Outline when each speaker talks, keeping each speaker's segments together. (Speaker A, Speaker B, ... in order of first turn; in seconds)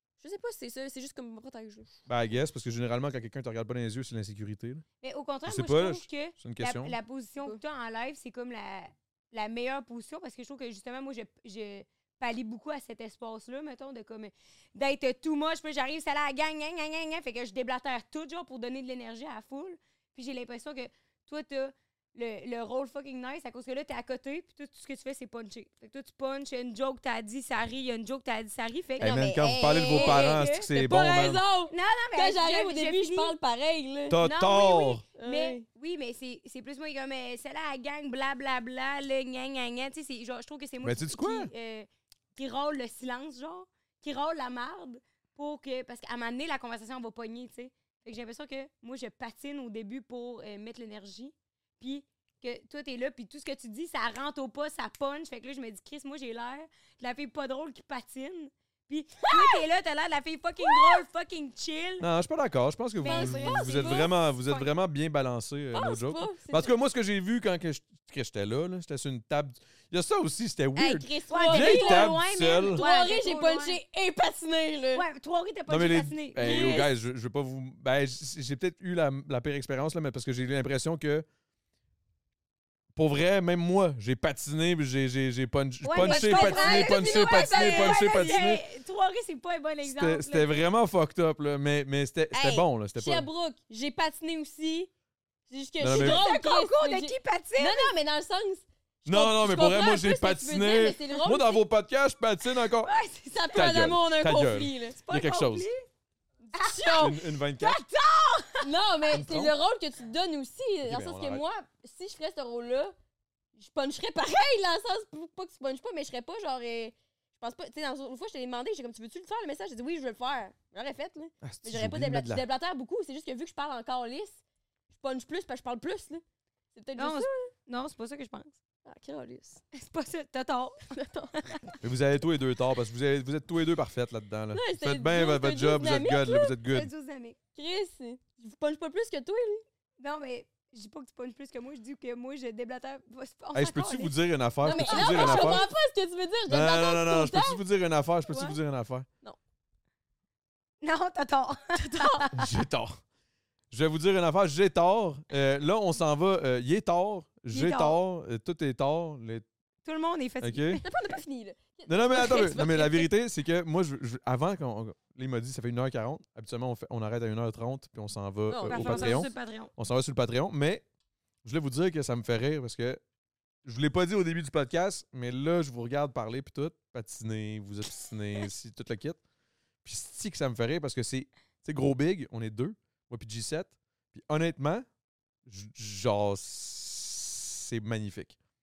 Speaker A: 0.2-1.9, 29.0-34.2, 35.2-35.6, 59.2-59.6, 60.6-61.0, 63.0-64.1, 65.7-66.8, 70.8-75.0, 76.4-76.9, 86.0-88.5, 92.3-94.9, 95.5-101.6, 103.3-105.1, 106.5-107.2, 108.6-112.9, 113.5-124.4, 124.9-127.5, 128.8-129.6, 130.9-131.6, 134.5-136.6, 137.6-139.7, 144.6-147.6, 151.8-152.3, 160.8-163.1, 168.5-169.3
Speaker B: 2.1-4.8, 5.5-7.0, 29.0-31.4, 34.1-35.0, 40.8-41.5, 62.0-72.8, 75.7-81.2, 83.0-88.6, 89.8-93.3, 95.8-96.2, 99.1-102.9, 103.5-105.7, 107.0-107.8, 109.1-109.5, 110.8-111.4, 121.4-122.4, 131.8-136.9, 143.5-145.7, 146.5-149.1, 152.3-153.0, 153.7-159.5, 160.4-160.8, 161.9-170.8, 171.4-173.0, 173.6-179.2, 179.8-184.9, 185.5-188.4
Speaker C: 5.0-30.7, 31.7-33.3, 34.2-62.1, 63.0-64.7, 71.3-73.8, 75.0-76.9, 85.8-90.6, 95.9-98.0, 102.6-103.9, 105.0-105.9, 106.5-108.7, 127.0-128.6, 129.7-131.7, 136.7-137.4, 140.0-144.1, 144.8-145.7, 148.3-148.6, 150.8-152.5, 157.5-158.0, 159.8-160.8, 168.7-169.7